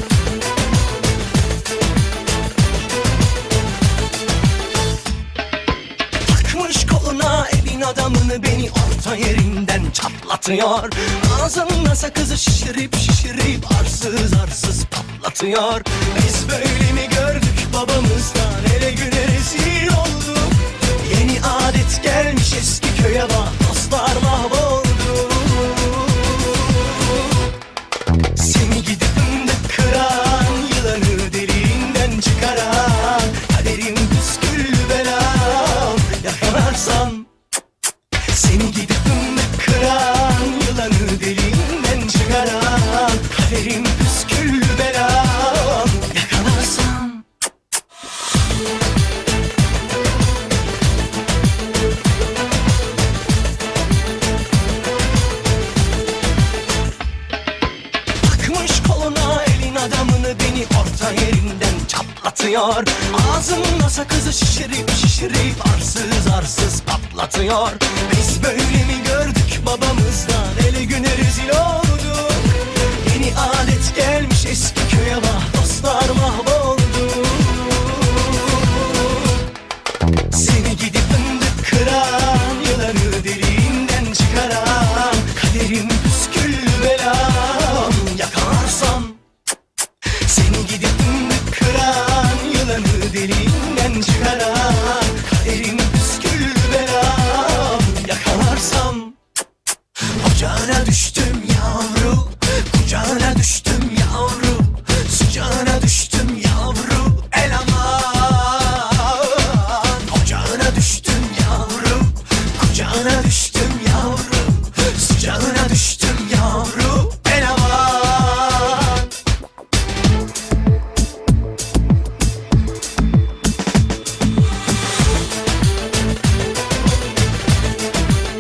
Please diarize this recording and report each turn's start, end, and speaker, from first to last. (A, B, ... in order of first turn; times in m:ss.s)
0:06.2-0:27.4 A
0:28.4-0:37.3 A
0:38.3-0:47.2 A
0:58.2-1:19.3 A
1:20.3-1:29.2 A
1:30.2-1:39.1 A
1:40.2-1:59.0 A